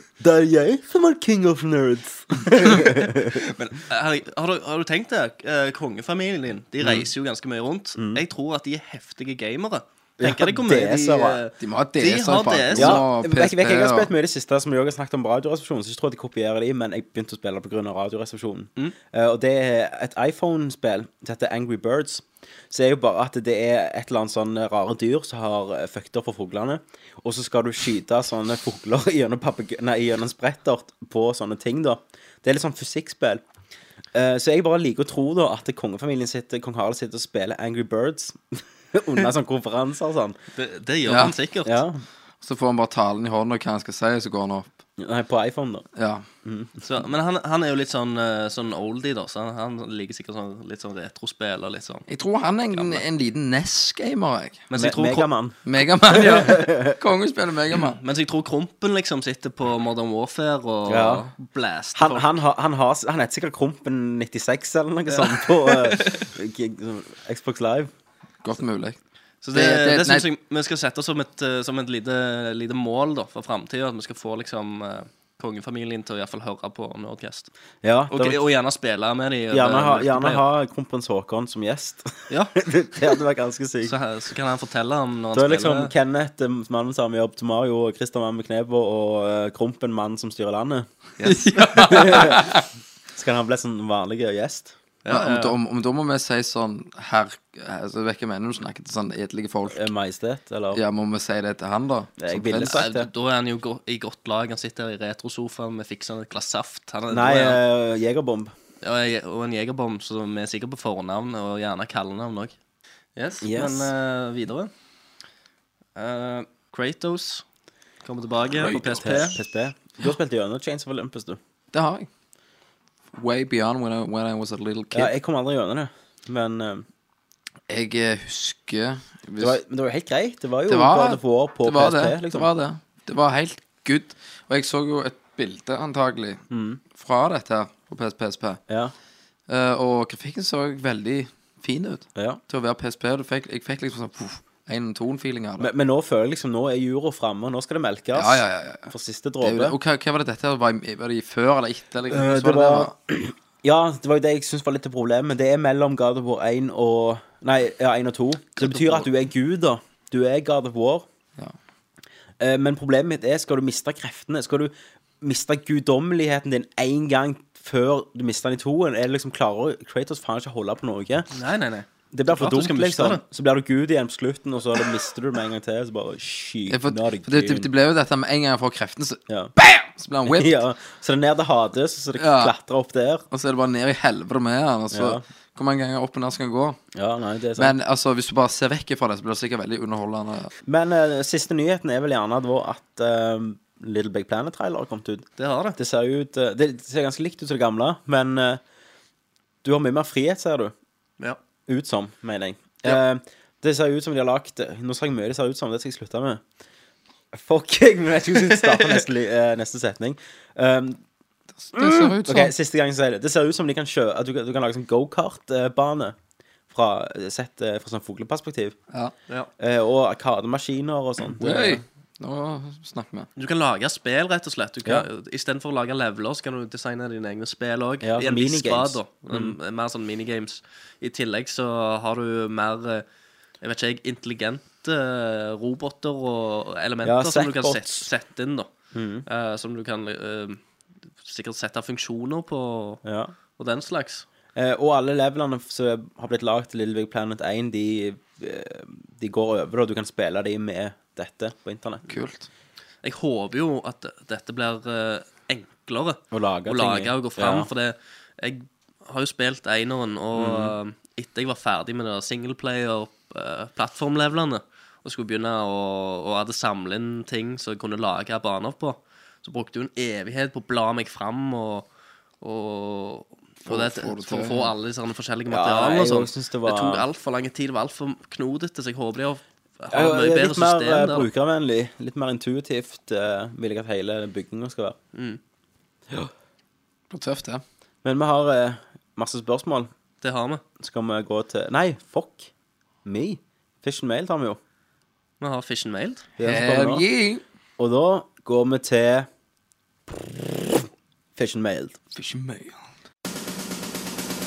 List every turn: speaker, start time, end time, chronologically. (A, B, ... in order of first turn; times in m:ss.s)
0:00.2-0:03.4 A
0:03.3-0:13.0 B
0:06.8-0:07.1 A
0:08.0-0:08.2 A
0:10.2-0:11.4 A
0:11.6-0:14.1 C
0:12.8-0:33.4 A
0:34.1-0:40.4 A
0:40.6-0:41.8 B
0:41.1-0:41.3 C
0:41.7-0:42.0 A
0:42.4-0:44.7 C
0:45.0-0:45.8 A
0:46.0-0:46.2 C
0:46.4-0:46.8 A
0:46.8-0:52.0 B
0:52.1-0:54.6 C
0:54.7-0:55.3 B
0:54.8-0:57.0 A
0:55.7-0:58.0 C
0:58.0-1:02.3 B
1:00.9-1:01.3 A
1:02.0-1:07.9 A
1:05.1-1:06.3 B
1:08.4-1:09.0 C
1:09.4-1:17.5 B
1:09.5-1:10.3 C
1:17.8-1:18.4 A
1:18.1-1:20.4 B
1:19.5-1:24.0 A
1:22.3-1:22.6 B
1:23.8-1:25.9 B
1:25.3-1:30.9 A
1:31.2-1:31.5 B
1:31.2-1:32.6 C
1:31.8-1:32.6 A
1:33.1-1:34.8 A
1:35.0-1:35.6 B
1:35.1-1:39.9 C
1:39.7-1:40.8 A
1:40.7-1:42.8 C
1:42.2-1:43.1 A
1:42.6-1:47.6 B
1:47.1-1:48.5 A
1:48.8-1:52.6 B
1:53.2-1:54.7 B
1:53.4-1:53.9 A
1:56.0-1:57.4 B
1:58.0-1:59.4 B
1:58.6-2:01.4 A
1:58.6-1:59.3 C
2:01.7-2:02.1 C
2:03.1-2:05.1 C
2:04.9-2:06.9 A
2:07.7-2:09.6 C
2:09.4-2:12.5 A
2:10.7-2:16.4 C
2:16.5-2:16.8 A
2:17.0-2:18.6 C
2:18.7-2:18.9 A
2:19.5-2:25.7 C
2:25.6-2:29.8 A
2:28.1-2:28.9 C
2:29.4-2:32.9 C
2:32.1-2:41.1 A
2:38.6-2:39.0 B
2:42.4-2:51.3 A
2:51.3-2:53.2 B
2:52.1-2:57.7 A
2:56.7-3:00.6 C
3:00.3-3:03.2 A
3:02.2-3:02.5 C
3:03.3-3:06.8 C
3:04.9-3:05.2 A
3:07.0-3:07.7 A
3:07.6-3:10.5 C
3:10.6-3:18.6 A
3:15.4-3:15.8 B
3:19.6-3:20.7 A
3:21.7-3:26.4 A
3:27.3-3:31.0 A
3:31.6-3:32.5 C
3:31.8-3:36.2 A
3:36.7-3:38.8 A
3:39.6-3:41.8 A
3:41.4-3:43.3 C
3:43.4-3:53.1 B
3:48.0-3:49.6 A
3:53.6-3:58.7 B
3:57.0-3:58.1 A
3:58.9-3:59.3 A
3:59.3-4:00.6 B
4:01.2-4:03.0 B
4:03.0-4:03.3 A
4:03.6-4:04.3 B
4:04.6-4:12.0 A
4:12.1-4:12.5 C
4:13.0-4:31.9 B
4:16.3-4:17.7 A
4:20.4-4:20.8 A
4:32.4-4:41.3 B
4:33.7-4:34.7 C
4:35.5-4:37.1 A
4:39.9-4:45.0 A
4:45.2-4:45.4 B
4:47.1-4:47.6 C
4:48.0-4:49.9 A
4:50.2-4:50.6 B
4:50.8-4:52.5 A
4:53.0-4:54.6 A
4:55.4-4:56.2 B
4:56.4-4:57.0 A
4:56.4-4:57.4 C
4:57.8-4:59.3 A
5:01.4-5:02.0 A
5:02.2-5:02.8 C